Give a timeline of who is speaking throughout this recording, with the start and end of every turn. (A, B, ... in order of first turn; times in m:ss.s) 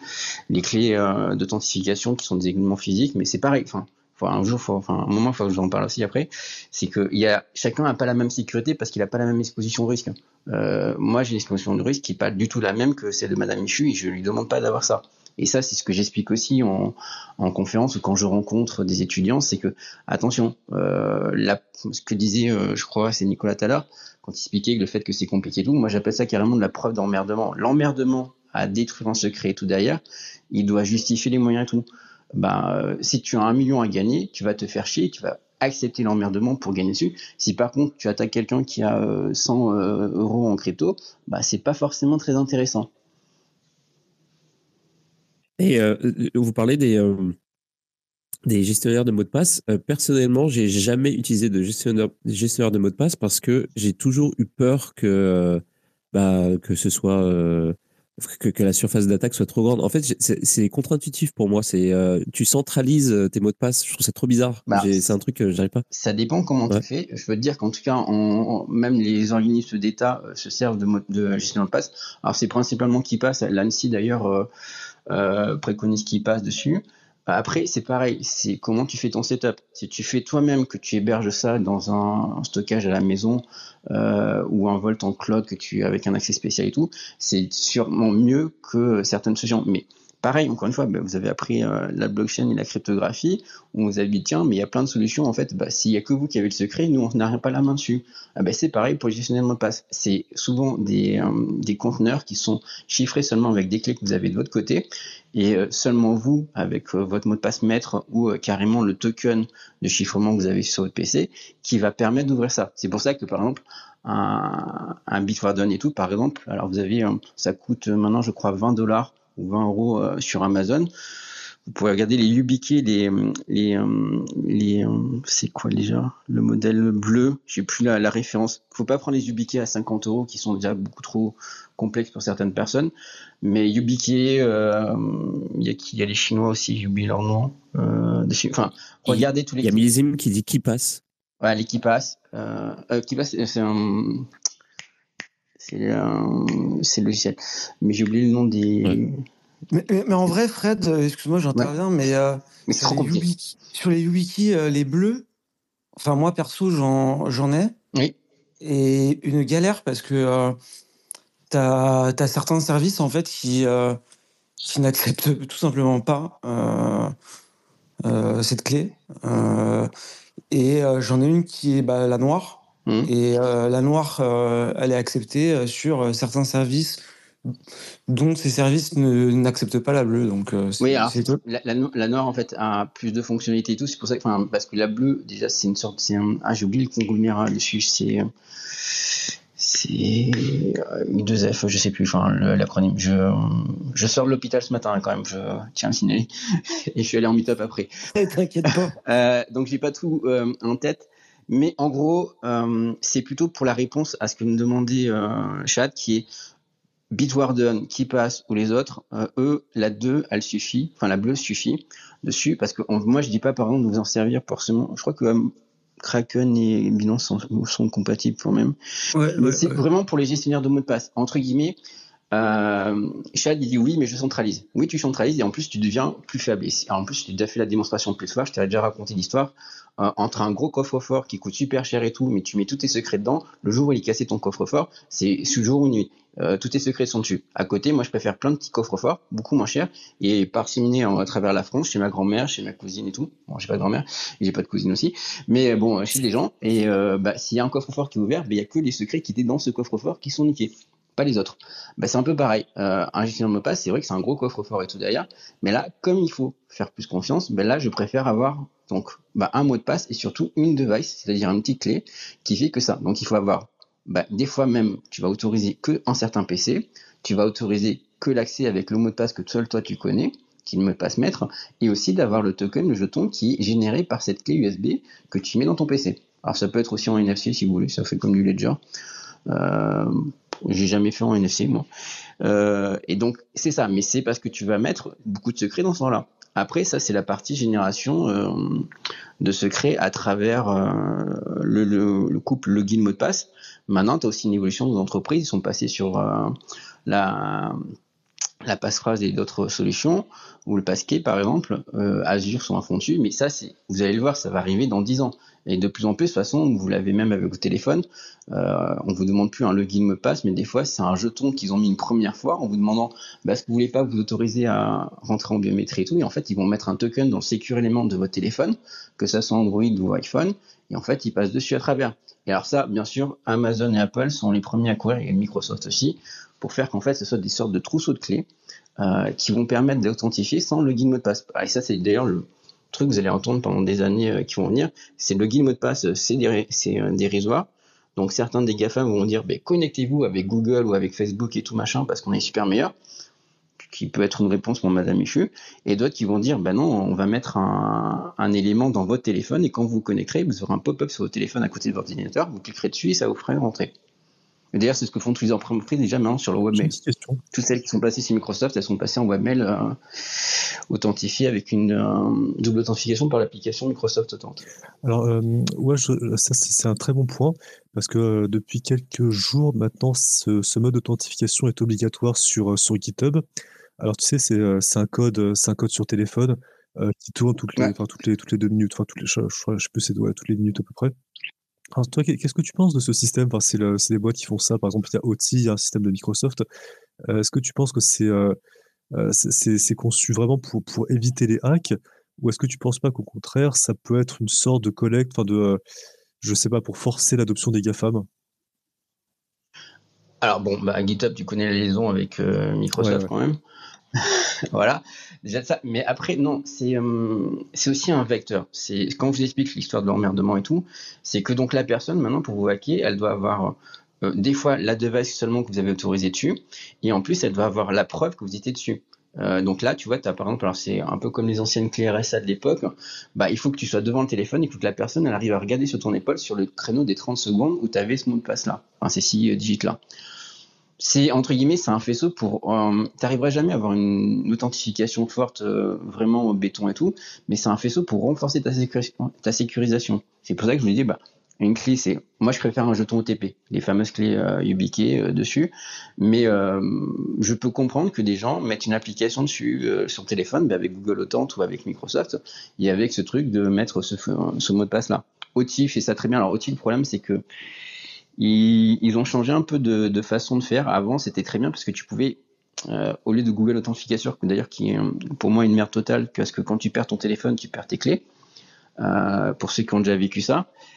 0:00.5-0:42.9 A
0:45.6-0:47.3 B
0:48.4-1:05.8 B
1:05.9-1:14.5 A
1:15.1-2:00.9 A
2:01.7-2:12.9 A
2:13.4-2:19.8 A
2:19.1-2:21.0 B
2:21.4-2:24.3 A
2:25.6-2:29.2 A
2:29.7-2:35.2 C
2:32.7-2:33.2 A
2:36.0-2:37.7 C
2:38.6-2:40.6 C
2:41.5-2:44.0 C
2:44.6-2:47.1 C
2:48.0-2:49.9 C
2:50.5-2:57.0 C
2:58.1-3:01.4 C
3:00.8-3:08.2 A
3:09.6-3:17.9 A
3:18.1-3:19.0 C
3:19.0-3:26.3 A
3:27.1-3:38.8 A
3:39.1-3:39.8 C
3:39.4-3:41.8 A
3:42.3-4:38.8 A
4:39.5-4:41.9 A
4:42.4-4:48.9 A
4:49.4-4:57.8 A
4:58.6-5:28.4 A
5:29.0-5:42.9 A
5:43.9-5:53.9 A
5:54.7-5:56.9 A
5:56.7-5:57.4 D
5:57.5-6:00.0 A
6:00.9-6:04.6 A
6:05.0-6:13.4 D
6:14.0-6:21.1 D
6:21.9-6:26.6 D
6:27.3-6:28.6 D
6:29.1-6:35.8 D
6:36.4-6:38.3 D
6:40.4-6:43.6 A
6:43.0-6:43.3 D
6:44.2-7:10.0 A
7:11.0-7:37.4 A
7:38.4-7:48.2 A
7:49.0-7:50.7 A